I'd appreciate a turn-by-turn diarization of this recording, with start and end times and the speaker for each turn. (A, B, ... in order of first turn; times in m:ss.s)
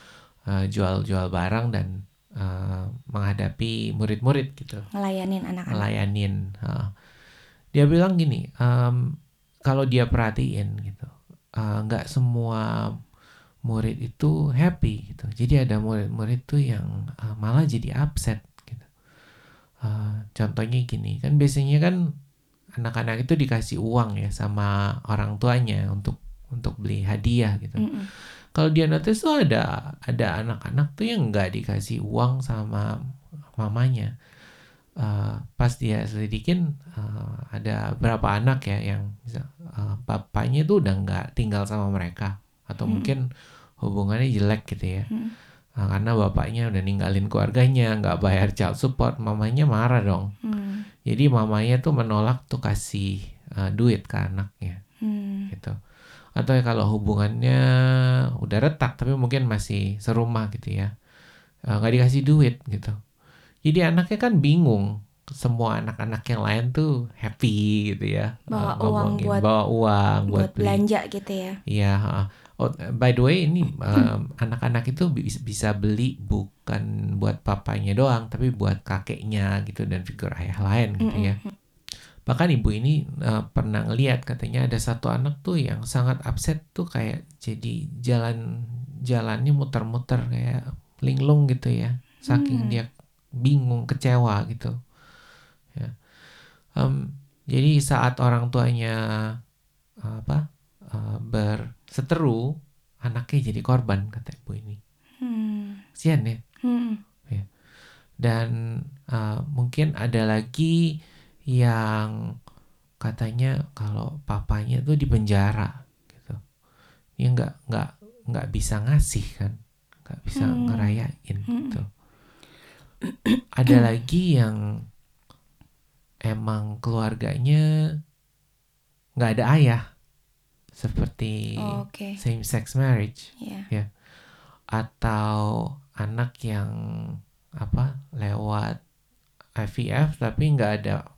0:00.5-0:04.9 A
0:04.9-0:05.9 B
0:05.7-0:06.9 A
0:07.7-0:09.1 A
0:09.7-0:13.0 A
0:13.7-0:18.9 A
0:19.8-0:22.0 A
0:22.8-0:32.8 A
0:27.8-0:28.1 B
0:33.6-0:34.1 A
0:35.0-0:43.3 A
0:42.8-0:43.1 B
0:43.8-0:45.1 A
0:45.8-0:50.3 A
0:50.4-0:50.9 B
0:51.0-0:54.8 A
0:55.0-0:55.5 B
0:55.5-0:55.8 A
0:56.4-1:00.9 A
1:01.7-1:03.0 A
1:03.6-1:10.8 A
1:08.5-1:09.5 B
1:10.3-1:11.6 B
1:11.7-1:21.4 A
1:21.0-1:21.5 B
1:22.2-1:28.4 A
1:29.1-1:32.9 A
1:32.2-1:32.8 B
1:33.4-1:34.7 A
1:36.8-1:39.3 A
1:40.0-1:40.4 A
1:40.9-1:42.5 A
1:43.0-1:44.8 A
1:45.2-1:45.8 B
1:46.0-1:46.4 A
1:46.6-1:47.0 B
1:48.2-1:48.5 A
1:49.1-1:50.8 A
1:51.5-1:52.1 A
1:53.0-1:56.4 A
1:57.2-2:01.8 A
2:00.3-2:01.8 B
2:03.1-2:03.9 B
2:03.6-2:04.6 A
2:06.3-2:07.6 A
2:09.2-2:09.8 A
2:10.8-2:13.9 A
2:11.6-2:12.2 B
2:13.4-2:13.6 B
2:14.7-2:18.8 A
2:19.6-2:21.0 A